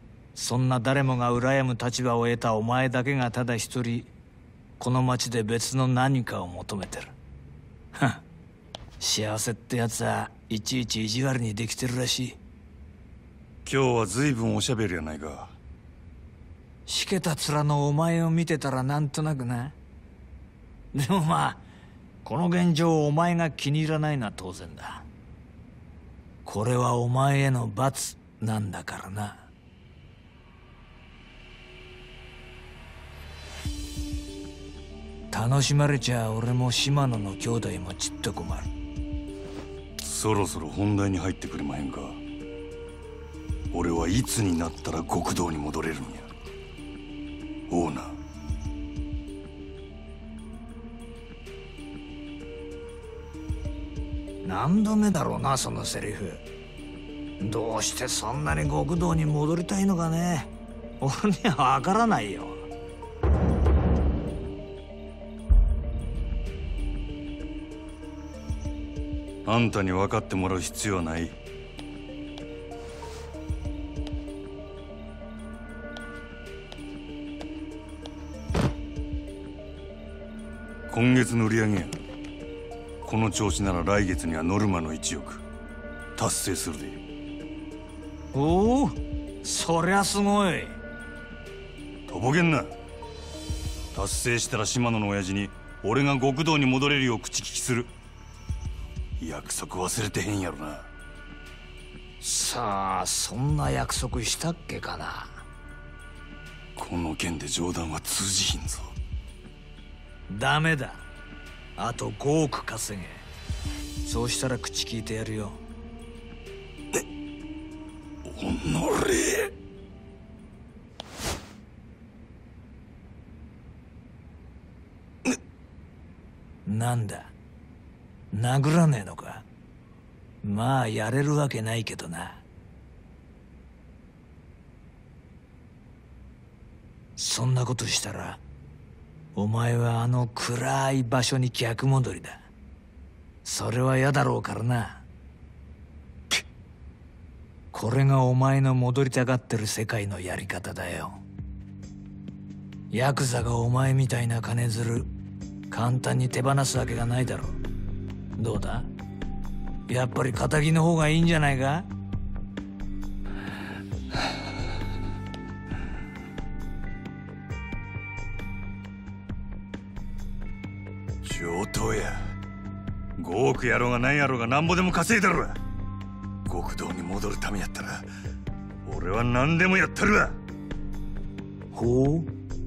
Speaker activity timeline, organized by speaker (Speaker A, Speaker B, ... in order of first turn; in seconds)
Speaker A: 0.3-4.1, 4.8-7.1, 8.0-8.2, 9.0-12.4, 16.9-19.8, 20.9-21.6, 22.2-25.1, 26.4-29.5, 35.3-38.7, 54.4-56.4, 57.4-62.7, 88.3-90.8, 102.2-105.5, 110.3-111.0, 111.8-113.3, 114.0-115.6, 126.7-127.3, 128.3-129.5, 130.4-132.4, 137.2-138.4, 139.3-142.4, 143.4-145.1, 147.7-151.2, 152.9-155.1, 155.7-157.6, 158.4-158.9, 159.9-161.9, 181.7-182.3
Speaker B: 13.7-15.6, 40.0-42.2, 43.7-46.3, 47.7-48.2, 69.5-71.4, 80.9-82.0, 83.0-85.4, 86.2-87.0, 92.1-92.7, 93.9-97.9, 99.2-100.9, 106.8-108.9, 118.2-119.5, 171.2-172.3, 173.2-175.6, 176.5-178.1, 178.8-180.4